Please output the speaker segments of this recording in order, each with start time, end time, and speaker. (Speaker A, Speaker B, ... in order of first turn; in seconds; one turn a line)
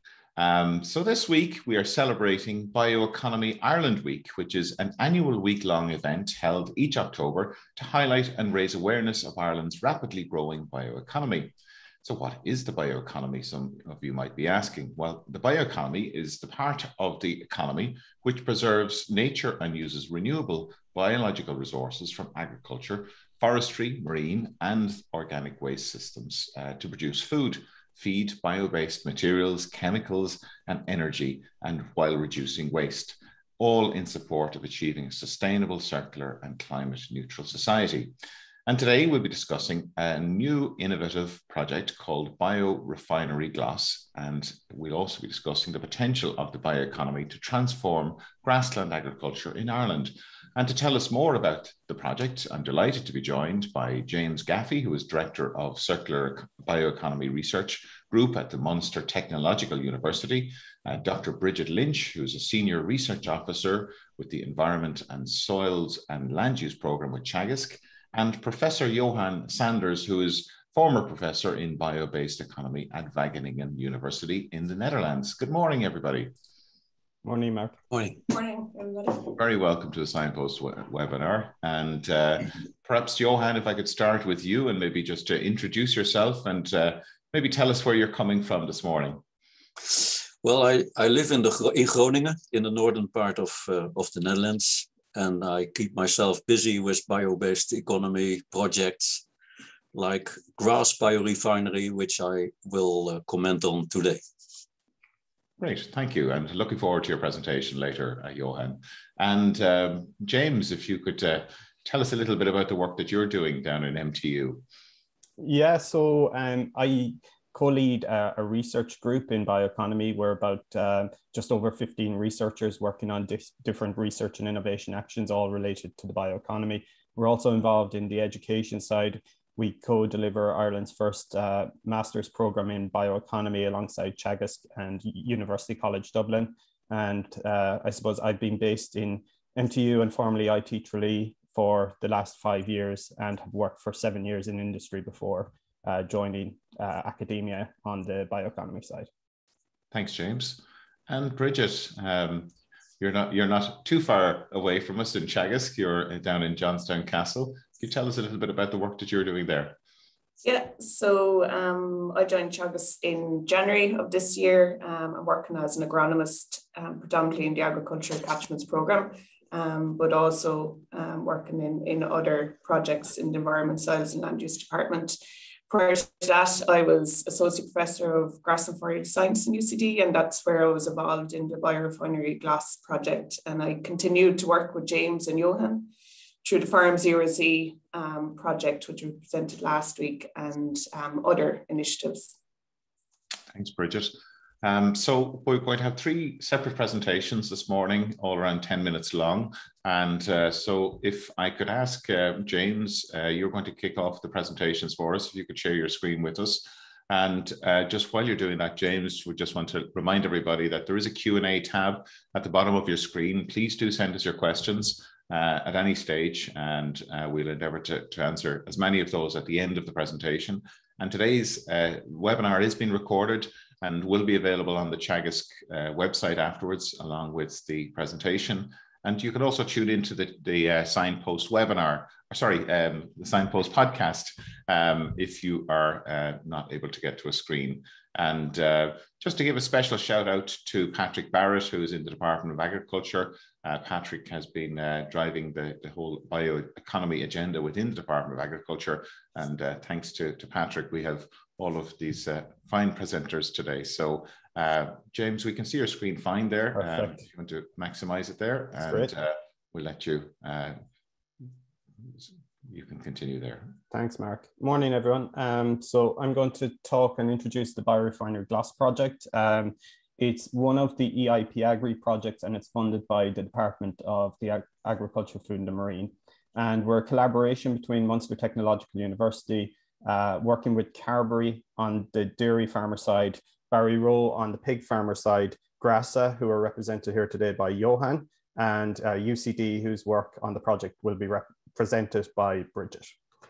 Speaker A: 0.4-38.1
Speaker A: 38.7-76.3
Speaker B: 77.2-77.8
Speaker C: 77.9-78.2
Speaker D: 78.3-79.3
Speaker A: 79.3-89.2
Speaker C: 89.9-99.2
Speaker C: 99.9-104.2
Speaker A: 105.6-114.6
Speaker B: 115.4-149.1
Speaker A: 149.9-159.8
Speaker D: 160.4-175.2
Speaker D: 175.7-185.9
Speaker D: 186.4-192.3
Speaker A: 193.5-260.8
Speaker B: 256.8-257.2
Speaker B: 258.9-259.1
Speaker A: 262.1-263.8
Speaker B: 263.9-293.1